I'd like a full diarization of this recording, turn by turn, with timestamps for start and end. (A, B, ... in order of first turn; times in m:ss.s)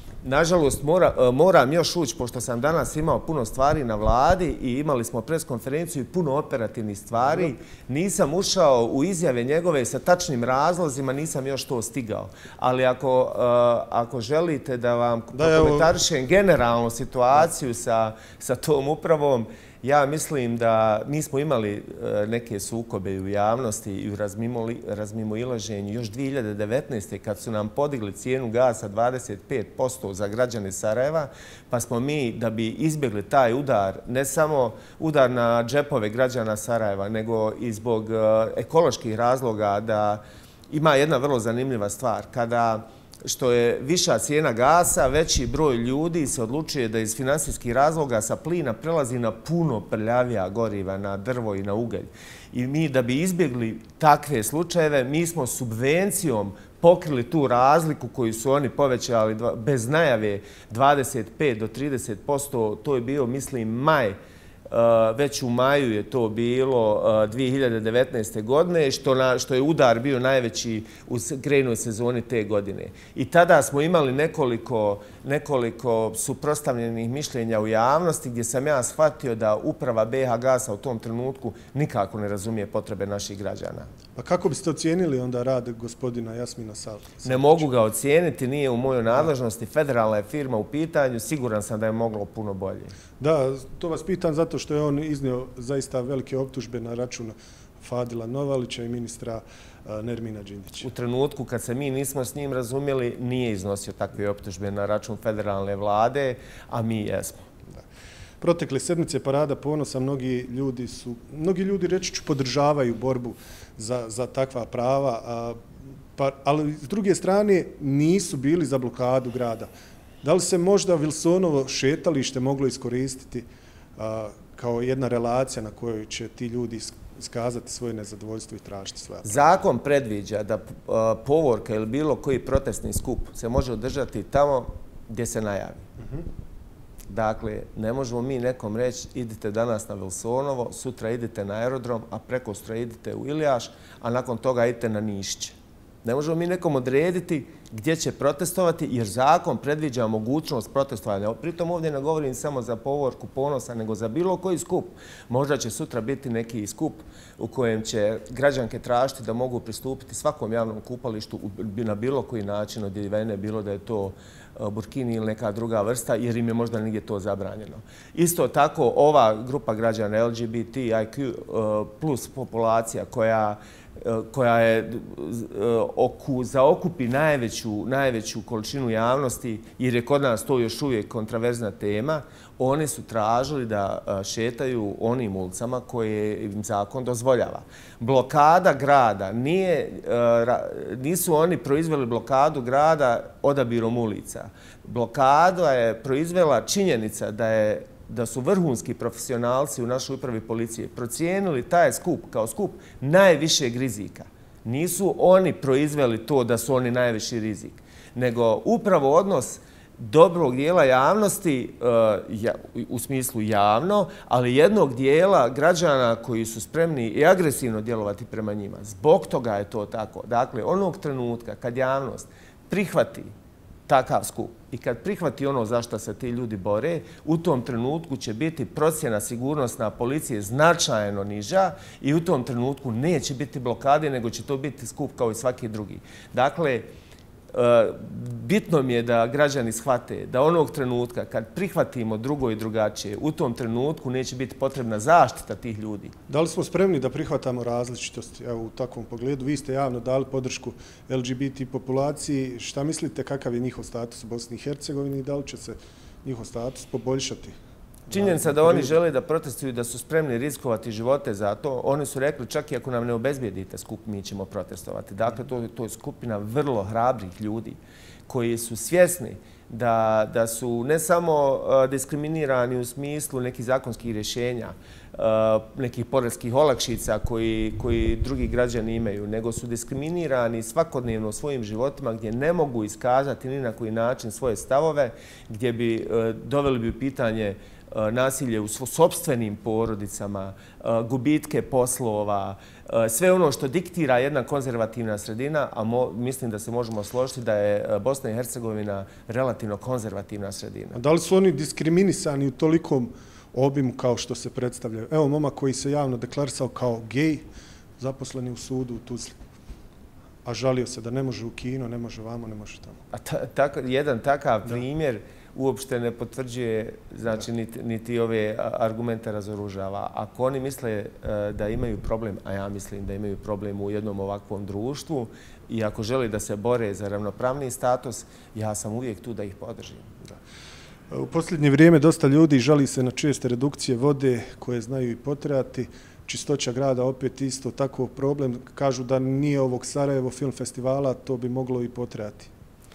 0:00.2-1:04.2 A
0:15.3-0:15.9 B
1:04.7-1:23.9 A
1:24.1-1:27.7 B
1:27.2-1:32.9 A
1:33.2-1:40.9 B
1:40.8-1:47.4 A
1:48.4-1:55.6 B
1:56.2-1:59.7 B
2:00.2-2:03.4 B
2:04.0-2:09.4 B
2:09.2-2:15.8 A
2:16.0-2:16.3 B
2:17.1-3:43.3 A
3:43.9-3:56.8 A
3:57.5-4:06.1 A
4:06.3-4:17.6 B
4:18.1-4:18.9 B
4:18.1-5:01.0 A
5:00.9-5:07.4 B
5:08.0-5:09.4 B
5:10.4-5:13.0 B
5:13.1-5:30.1 A
5:31.1-5:42.5 B